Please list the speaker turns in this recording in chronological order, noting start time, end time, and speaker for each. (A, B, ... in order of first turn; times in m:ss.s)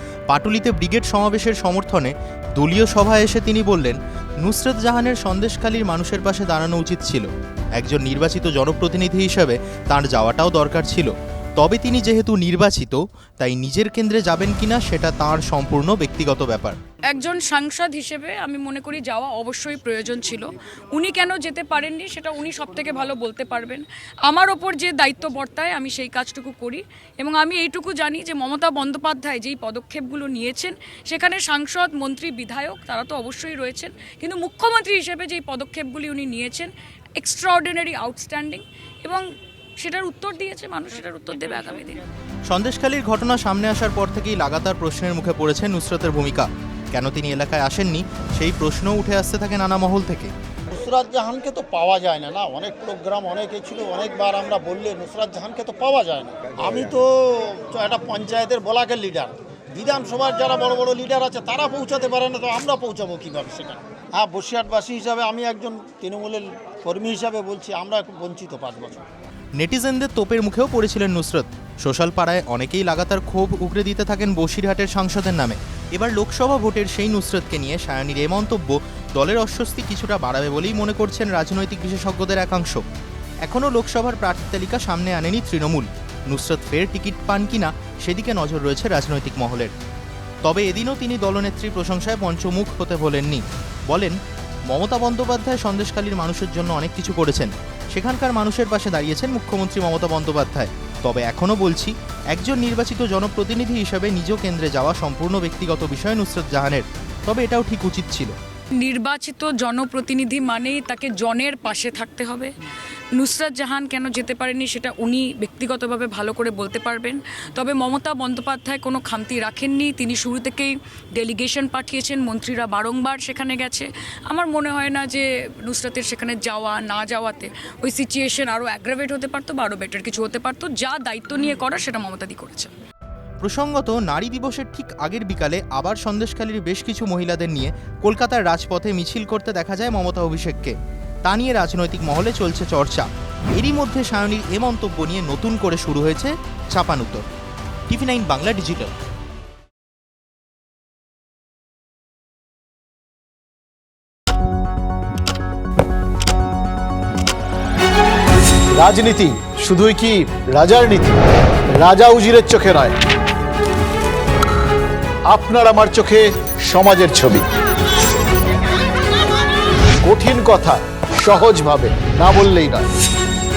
0:00.3-0:16.8 A
0:17.1-0:39.2 B
0:39.8-0:42.0 B
0:42.5-0:50.3 A
0:50.7-1:09.0 C
1:09.6-1:22.8 A
1:23.4-1:29.7 A
1:30.4-1:34.2 A
1:34.7-1:48.3 A
1:48.8-1:52.5 B
1:53.2-2:12.7 B
2:13.4-2:27.2 A
2:27.9-2:28.9 A
2:38.7-2:43.0 D
2:45.3-2:47.5 D
2:50.0-2:52.9 D